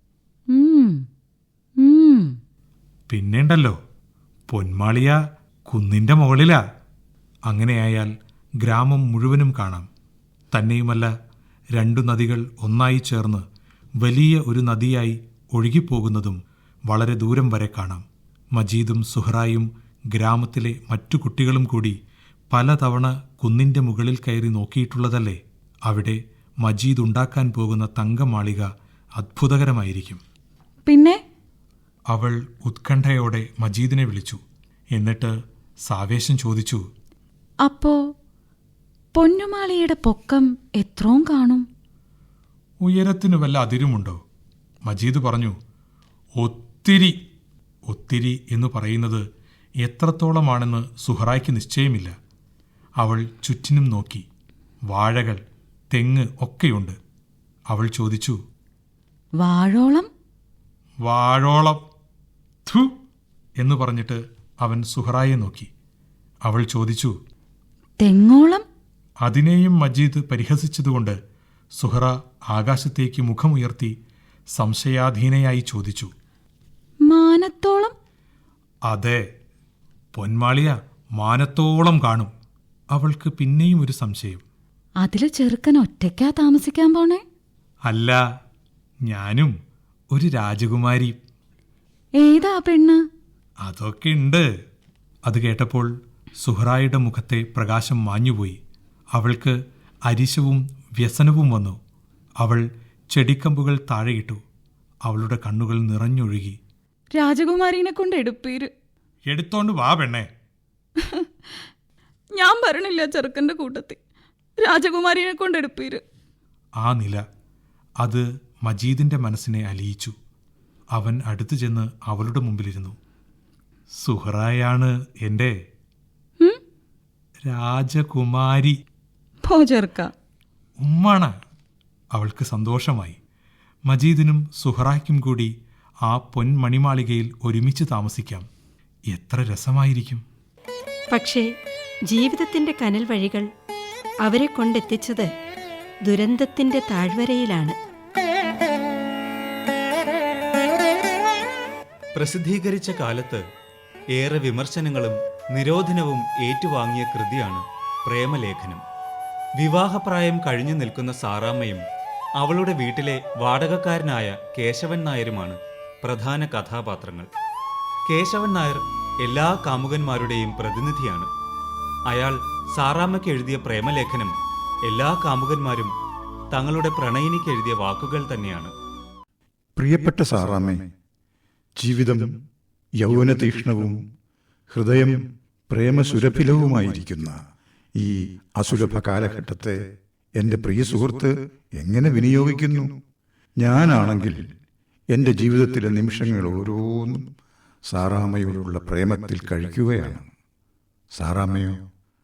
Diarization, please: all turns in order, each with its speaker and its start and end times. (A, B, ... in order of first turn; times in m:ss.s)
0:00.5-0:01.1 A
0:01.8-0:02.4 A
0:03.1-0:03.8 B
0:04.5-0:06.6 B
0:07.5-0:09.9 B
0:10.5-0:11.1 B
0:11.8-0:13.4 B
0:14.0-0:22.0 B
0:22.5-0:30.2 B
0:30.9-0:31.2 A
0:32.1-0:34.4 B
0:34.9-0:35.3 B
0:35.9-0:36.8 B
0:37.6-0:38.0 A
0:39.2-0:41.6 A
0:42.8-0:44.2 B
0:44.8-0:45.6 B
0:46.4-0:47.2 B
0:47.9-0:49.2 B
0:49.8-0:52.2 B
0:53.0-0:54.2 B
0:54.9-0:55.4 B
0:55.9-0:57.0 B
0:57.7-0:58.4 B
0:59.4-1:00.1 A
1:01.0-1:01.8 B
1:02.7-1:02.9 B
1:03.6-1:05.7 B
1:06.4-1:07.1 B
1:08.0-1:08.6 A
1:09.2-1:11.2 B
1:11.8-1:14.0 B
1:14.5-1:16.1 B
1:17.1-1:17.9 A
1:18.9-1:19.2 B
1:20.2-1:22.3 B
1:22.9-1:24.4 B
1:25.0-1:27.2 A
1:27.9-1:28.2 B
1:29.1-1:29.5 B
1:30.1-1:31.2 B
1:32.2-1:33.0 A
1:33.6-1:34.5 B
1:35.2-1:35.9 B
1:36.4-1:38.6 B
1:39.1-1:41.8 B
1:42.4-1:44.4 B
1:45.0-1:46.6 B
1:47.2-1:48.7 A
1:49.3-1:50.3 B
1:51.0-1:51.3 A
1:52.4-1:54.0 A
1:54.6-1:56.0 A
1:56.8-1:57.2 B
1:58.0-2:00.2 B
2:00.9-2:03.0 B
2:04.0-2:05.6 B
2:07.5-2:08.8 B
2:09.4-2:10.1 A
2:10.8-2:11.3 B
2:12.1-2:13.2 B
2:13.9-2:15.5 B
2:16.1-2:18.4 B
2:19.1-2:20.2 B
2:21.1-2:21.5 C
2:22.1-2:23.5 C
2:24.2-2:25.3 C
2:26.1-2:27.8 C
2:32.2-2:33.4 D
2:34.2-2:38.8 D
2:39.6-2:41.8 D
2:42.4-2:47.3 D
2:48.1-2:51.3 D
2:52.1-2:54.3 D
2:54.9-2:55.9 D
2:56.5-2:58.7 D
2:59.8-3:00.9 E
3:01.8-3:02.4 E
3:03.0-3:04.0 E
3:04.7-3:07.4 E
3:08.0-3:09.8 E
3:10.4-3:13.0 E
3:13.6-3:14.5 E
3:15.1-3:17.3 E
3:17.9-3:20.3 E
3:21.1-3:21.9 E